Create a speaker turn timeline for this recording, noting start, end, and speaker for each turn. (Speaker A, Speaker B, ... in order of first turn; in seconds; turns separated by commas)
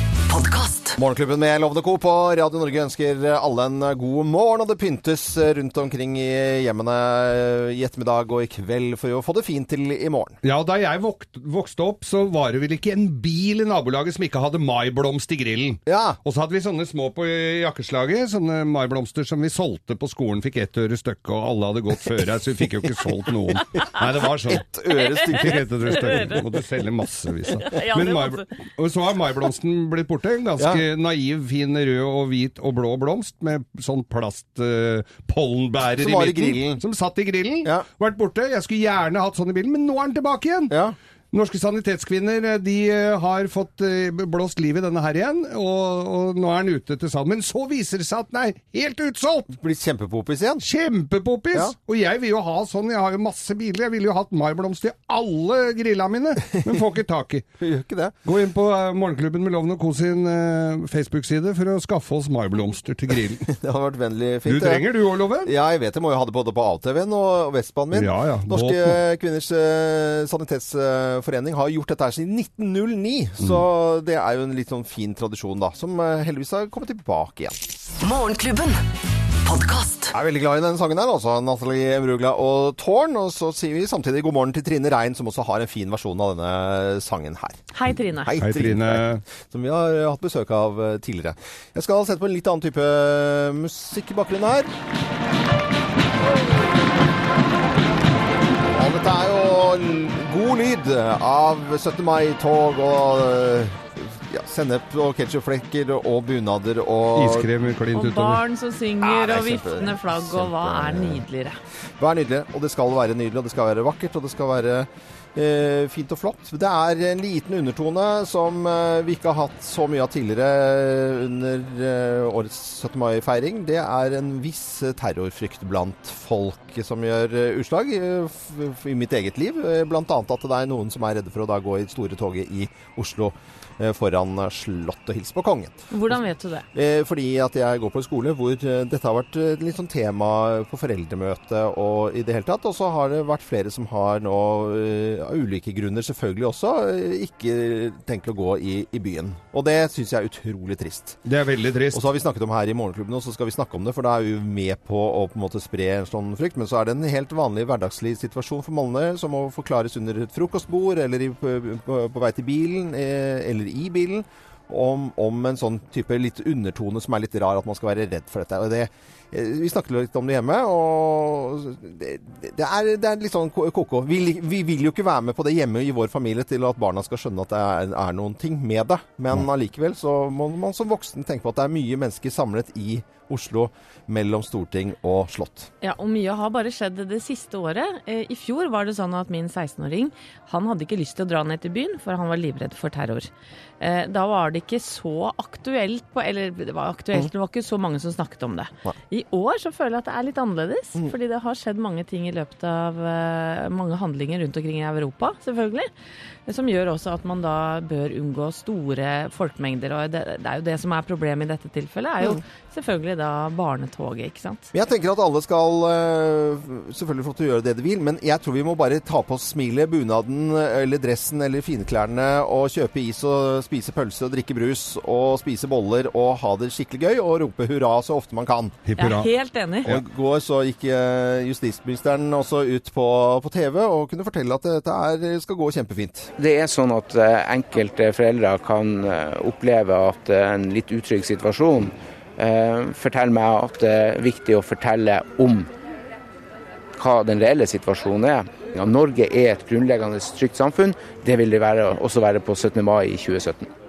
Speaker A: 0.3-1.0, Speaker B: 1.0-10.4, Speaker C: 10.4-24.7, Speaker B: 15.9-16.2, Speaker B: 24.5-26.3, Speaker D: 24.9-26.4, Speaker C: 25.2-40.8, Speaker D: 27.6-28.5, Speaker B: 30.6-30.8, Speaker B: 36.0-36.8, Speaker B: 40.7-41.0, Speaker C: 41.3-49.5, Speaker B: 49.5-50.6, Speaker C: 50.6-57.5, Speaker B: 56.5-56.8, Speaker B: 57.6-58.2, Speaker C: 58.2-63.5, Speaker B: 63.5-64.9, Speaker C: 64.5-65.5, Speaker B: 65.4-77.6, Speaker C: 67.9-69.0, Speaker A: 78.0-78.8, Speaker A: 79.4-80.1, Speaker B: 80.1-94.7, Speaker D: 87.7-88.4, Speaker C: 88.4-89.2, Speaker B: 98.7-107.5, Speaker C: 107.2-108.4, Speaker D: 107.9-111.6, Speaker B: 109.0-111.2, Speaker B: 112.0-136.2, Speaker D: 135.9-136.7, Speaker B: 136.7-151.2, Speaker C: 151.2-152.0, Speaker B: 151.9-185.7, Speaker D: 185.8-193.3, Speaker D: 193.8-205.9, Speaker D: 206.5-214.7, Speaker B: 214.7-228.8, Speaker C: 228.9-229.3, Speaker D: 229.0-229.9, Speaker B: 229.8-236.3, Speaker E: 236.4-245.7, Speaker E: 247.0-253.7